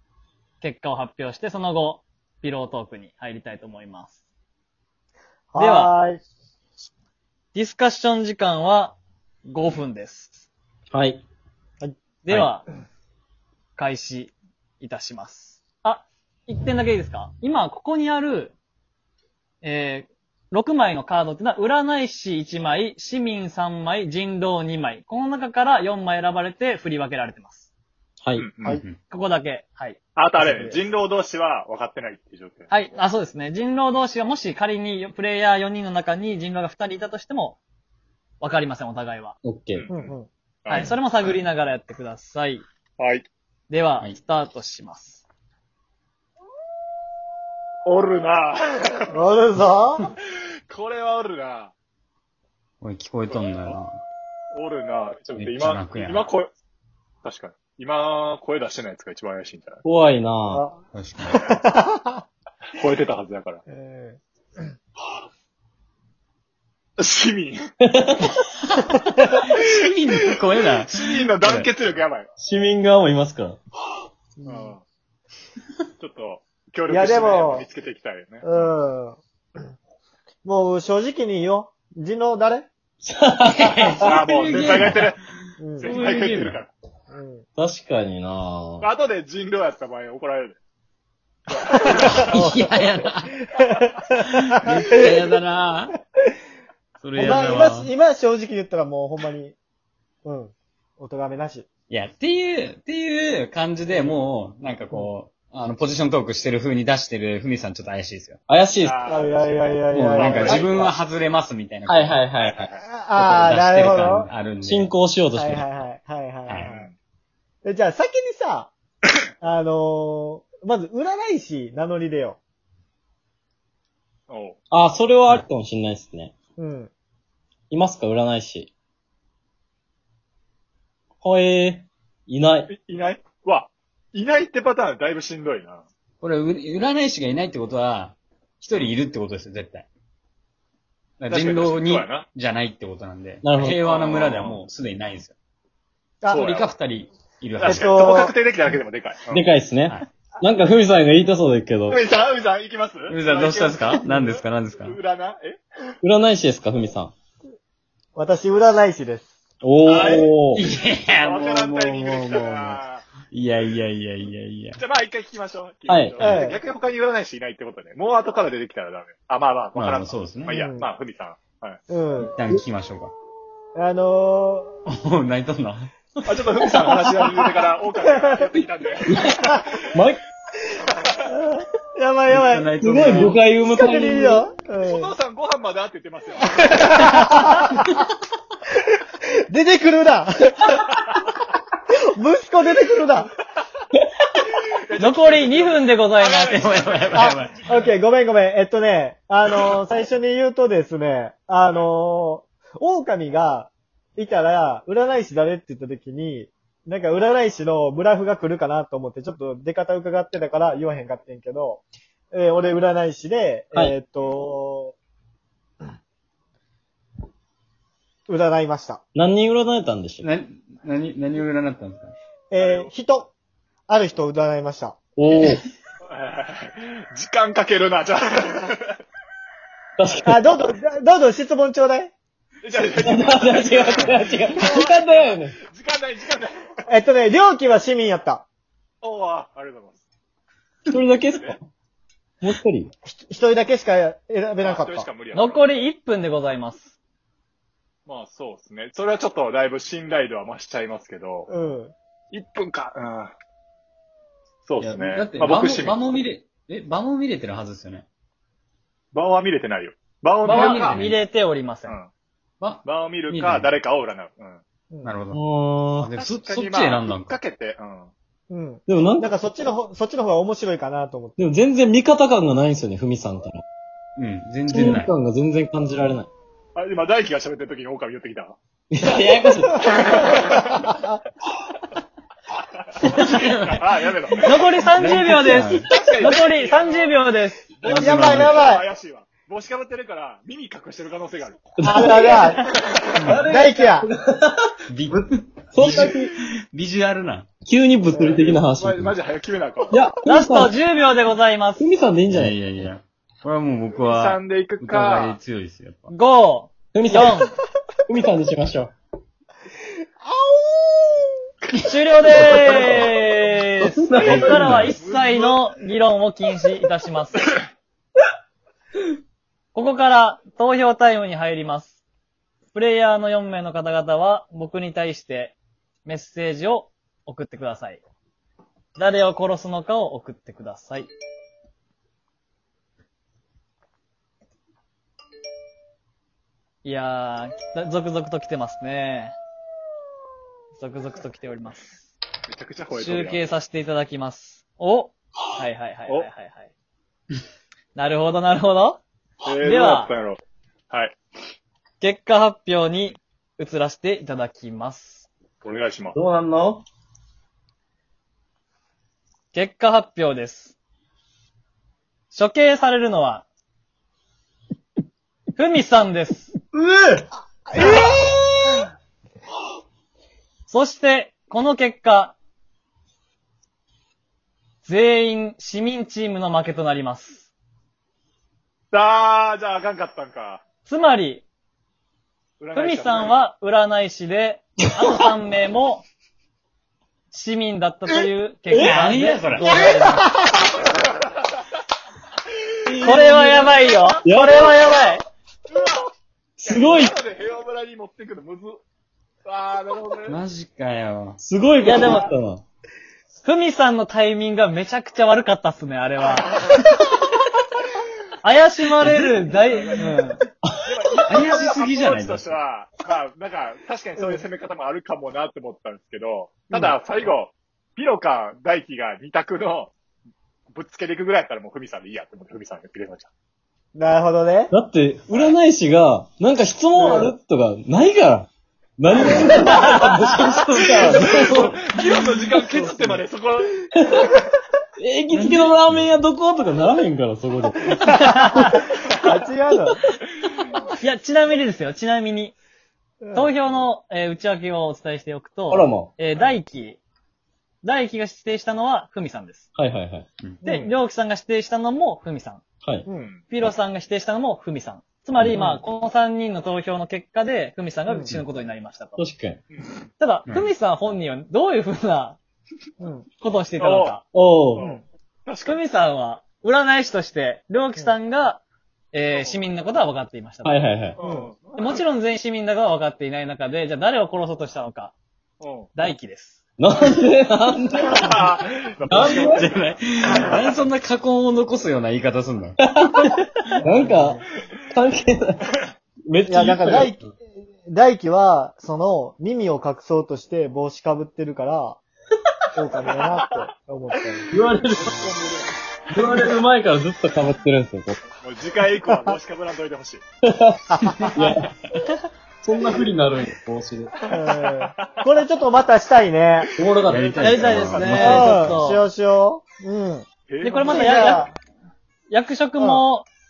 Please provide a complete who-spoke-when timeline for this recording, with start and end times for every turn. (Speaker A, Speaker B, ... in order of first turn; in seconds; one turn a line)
Speaker A: 0.6-4.2
Speaker B: 5.5-6.2
Speaker A: 5.6-5.9
Speaker A: 7.5-10.4
Speaker C: 10.9-11.2
Speaker A: 12.2-12.7
Speaker A: 13.8-18.6
Speaker A: 19.6-27.7
Speaker C: 28.2-28.5
Speaker D: 28.4-28.8
Speaker E: 28.6-29.0
Speaker A: 29.1-30.0
Speaker D: 30.2-32.7
Speaker B: 30.4-30.8
Speaker A: 32.7-37.6
Speaker A: 38.4-39.4
Speaker C: 39.4-39.9
Speaker D: 39.8-40.9
Speaker B: 39.9-40.3
Speaker A: 40.7-42.6
Speaker D: 43.0-43.3
Speaker A: 43.7-45.2
Speaker D: 47.9-49.1
Speaker B: 49.1-50.1
Speaker D: 50.7-51.7
Speaker E: 52.8-54.0
Speaker D: 54.5-56.5
Speaker E: 55.4-56.3
Speaker D: 57.2-59.8
Speaker C: 59.8-60.7
Speaker B: 60.5-60.8
Speaker E: 60.9-61.5
Speaker B: 61.4-62.2
Speaker D: 62.7-63.6
Speaker B: 63.7-64.7
Speaker D: 67.0-67.6
Speaker C: 67.8-68.3
Speaker E: 68.8-71.7
Speaker D: 70.8-72.3
Speaker C: 72.4-73.6
Speaker B: 74.4-74.7
Speaker D: 74.5-74.8
Speaker D: 76.0-78.7
Speaker B: 76.9-77.7
Speaker B: 78.4-79.2
Speaker B: 80.4-82.7
Speaker C: 83.0-84.1
Speaker E: 83.5-85.2
Speaker D: 84.0-85.2
Speaker B: 85.6-85.9
Speaker D: 85.8-86.7
Speaker E: 85.8-86.6
Speaker B: 87.1-87.5
Speaker C: 87.6-88.9
Speaker D: 88.8-90.6
Speaker D: 91.5-92.1
Speaker B: 91.9-92.7
Speaker E: 92.1-93.4
Speaker B: 93.4-95.3
Speaker E: 94.1-96.0
Speaker E: 97.0-97.9
Speaker B: 97.2-99.6
Speaker B: 100.2-101.7
Speaker E: 101.9-108.4
Speaker B: 103.9-104.2
Speaker C: 108.5-109.0
Speaker D: 108.8-110.9
Speaker B: 109.1-110.8
Speaker E: 109.9-112.2
Speaker C: 111.9-112.7
Speaker D: 112.4-112.8
Speaker B: 112.8-114.3
Speaker E: 113.2-114.9
Speaker C: 114.6-115.6
Speaker B: 115.3-116.8
Speaker E: 116.5-116.7
Speaker D: 116.6-117.0
Speaker B: 117.6-118.7
Speaker B: 119.4-122.4
Speaker D: 124.3-124.6
Speaker C: 124.7-126.3
Speaker B: 126.6-126.9
Speaker C: 127.7-128.7
Speaker C: 131.2-132.7
Speaker D: 132.7-135.8
Speaker E: 136.2-139.9
Speaker E: 141.2-145.4
Speaker D: 141.3-142.3
Speaker C: 143.4-143.8
Speaker D: 143.8-144.6
Speaker D: 146.3-146.7
Speaker E: 146.3-147.9
Speaker D: 147.6-149.5
Speaker B: 147.7-148.3
Speaker C: 149.3-152.0
Speaker D: 151.9-155.6
Speaker E: 153.1-155.0
Speaker C: 156.0-157.1
Speaker B: 158.2-159.3
Speaker C: 159.6-160.7
Speaker E: 159.9-164.8
Speaker D: 161.2-163.1
Speaker D: 164.8-171.8
Speaker C: 165.9-166.2
Speaker B: 166.2-166.6
Speaker E: 169.8-170.6
Speaker B: 170.5-170.8
Speaker B: 171.9-172.3
Speaker E: 172.3-173.1
Speaker B: 173.8-174.8
Speaker E: 174.9-175.9
Speaker D: 176.3-179.8
Speaker B: 178.0-178.5
Speaker C: 179.1-179.4
Speaker C: 179.9-180.2
Speaker B: 181.3-185.1
Speaker E: 182.3-183.3
Speaker C: 182.8-184.4
Speaker D: 184.8-187.2
Speaker B: 186.6-187.9
Speaker B: 189.5-190.8
Speaker B: 192.2-193.3
Speaker D: 194.6-198.0
Speaker A: 195.0-196.6
Speaker E: 196.5-197.6
Speaker B: 197.1-215.0
Speaker B: 218.3-219.0
Speaker C: 219.2-220.3
Speaker E: 220.2-222.1
Speaker B: 222.5-223.3
Speaker D: 222.6-222.9
Speaker B: 223.9-225.0
Speaker C: 225.2-225.6
Speaker D: 226.1-229.0
Speaker C: 230.0-230.4
Speaker B: 230.2-232.1
Speaker D: 232.6-236.7
Speaker C: 233.0-235.6
Speaker B: 236.9-238.4
Speaker D: 239.0-240.0
Speaker C: 240.9-241.6
Speaker D: 241.3-241.6
Speaker C: 242.4-242.9
Speaker B: 243.1-245.1
Speaker D: 244.6-245.8
Speaker A: 245.3-246.9
Speaker D: 248.1-251.5
Speaker B: 251.5-251.9
Speaker D: 252.3-253.3
Speaker D: 254.7-256.0
Speaker E: 254.8-258.1
Speaker D: 259.1-261.0
Speaker E: 260.4-261.2
Speaker A: 260.5-261.9
Speaker E: 262.6-263.8
Speaker D: 262.9-264.6
Speaker E: 265.1-265.4
Speaker C: 265.3-266.1
Speaker E: 266.0-267.4
Speaker D: 266.1-268.1
Speaker B: 268.5-271.4
Speaker C: 268.9-269.3
Speaker C: 271.4-273.6
Speaker E: 274.2-275.1
Speaker C: 274.7-276.3
Speaker D: 276.8-278.6
Speaker C: 278.9-280.3
Speaker D: 279.8-280.9
Speaker B: 279.9-281.2
Speaker E: 283.2-284.3
Speaker D: 283.3-284.4
Speaker A: 284.4-288.4
Speaker E: 285.0-285.9
Speaker D: 285.9-287.1
Speaker D: 287.8-291.6
Speaker E: 287.9-288.6
Speaker B: 287.9-288.9
Speaker C: 291.8-292.6
Speaker B: 291.8-294.1
Speaker C: 293.2-295.2
Speaker E: 294.9-297.5
Speaker C: 295.7-296.3
Speaker C: 297.6-299.2
Speaker B: 298.1-298.4
Speaker D: 298.2-300.1
Speaker C: 299.9-300.7
Speaker A: 300.3-301.9
Speaker C: 301.8-302.6
Speaker E: 302.3-306.1
Speaker D: 303.9-305.4
Speaker A: 306.1-307.6
Speaker C: 306.9-307.4
Speaker C: 308.1-308.9
Speaker B: 310.2-311.3
Speaker A: 311.8-317.6
Speaker C: 312.5-313.0
Speaker E: 312.6-313.1
Speaker C: 313.8-314.9
Speaker D: 314.2-315.7
Speaker E: 314.6-314.9
Speaker A: 319.7-322.0
Speaker A: 322.7-328.0
Speaker A: 329.0-331.1
Speaker A: 336.8-339.4
Speaker A: 340.7-342.0
Speaker D: 342.5-343.5
Speaker A: 342.9-346.7
Speaker A: 347.9-349.0
Speaker D: 349.4-350.4
Speaker A: 349.6-350.1
Speaker D: 350.9-351.2
Speaker A: 352.0-355.3
Speaker D: 355.6-356.2
Speaker C: 356.1-356.8
Speaker A: 359.5-360.8
Speaker A: 362.3-363.5
Speaker A: 365.5-366.6
Speaker B: 366.8-368.8
Speaker A: 370.7-372.4
Speaker A: 374.8-377.5
Speaker D: 378.9-380.6
Speaker A: 380.9-381.4
Speaker D: 382.6-383.4
Speaker A: 382.8-386.1
Speaker A: 387.3-390.2
Speaker C: 388.7-389.1
Speaker E: 388.8-390.2
Speaker B: 389.6-390.4
Speaker D: 392.9-394.1
Speaker C: 392.9-393.7
Speaker A: 393.0-395.2
Speaker C: 394.2-394.7
Speaker D: 395.7-396.0
Speaker C: 396.6-397.1
Speaker D: 396.6-398.8
Speaker D: 399.4-400.4
Speaker E: 400.3-401.4
Speaker C: 401.4-402.6
Speaker A: 401.8-402.3
Speaker A: 403.4-406.6
Speaker A: 408.4-410.4
Speaker D: 409.5-410.2
Speaker D: 410.8-419.9
Speaker E: 411.3-412.5
Speaker B: 414.2-414.4
Speaker D: 420.7-423.3
Speaker B: 423.9-424.7
Speaker C: 424.7-431.8
Speaker B: 427.0-427.3
Speaker D: 430.9-433.8
Speaker C: 432.8-433.1
Speaker C: 434.0-434.3
Speaker C: 435.0-438.0
Speaker E: 435.3-436.1
Speaker A: 438.1-438.8
Speaker B: 438.6-440.0
Speaker C: 439.7-440.0
Speaker A: 441.0-442.6
Speaker B: 443.2-443.5
Speaker A: 443.3-447.0
Speaker C: 445.7-446.1
Speaker A: 447.8-449.7
Speaker C: 449.8-450.3
Speaker A: 450.6-452.6
Speaker D: 450.6-450.9
Speaker D: 453.1-453.4
Speaker A: 453.5-459.2
Speaker B: 458.1-458.3
Speaker C: 459.2-459.6
Speaker D: 459.7-460.1
Speaker A: 460.2-462.4
Speaker B: 463.0-463.3
Speaker A: 463.4-464.2
Speaker D: 463.8-464.2
Speaker C: 464.3-464.9
Speaker D: 464.7-465.8
Speaker A: 465.6-470.8
Speaker C: 470.6-471.2
Speaker D: 471.2-472.0
Speaker B: 471.2-471.5
Speaker A: 471.8-475.1
Speaker D: 475.6-475.9
Speaker A: 475.9-476.6
Speaker C: 476.8-478.3
Speaker D: 478.1-479.9
Speaker C: 479.1-479.7
Speaker E: 479.1-482.8
Speaker C: 482.8-485.7
Speaker B: 483.9-484.4
Speaker C: 486.3-487.1
Speaker B: 486.5-492.0
Speaker B: 492.8-494.5
Speaker C: 494.5-495.2
Speaker D: 495.0-496.5
Speaker C: 496.1-498.2
Speaker D: 498.4-500.2
Speaker C: 500.4-501.7
Speaker B: 500.9-501.3
Speaker E: 501.0-502.1
Speaker C: 502.6-504.1
Speaker B: 504.3-506.7
Speaker D: 504.7-505.1
Speaker C: 506.8-508.7
Speaker E: 507.1-508.3
Speaker A: 507.4-509.0
Speaker D: 508.0-508.4
Speaker B: 508.1-510.3
Speaker D: 510.5-511.4
Speaker A: 510.6-511.5
Speaker B: 510.8-511.5
Speaker A: 512.3-513.3
Speaker B: 512.8-513.0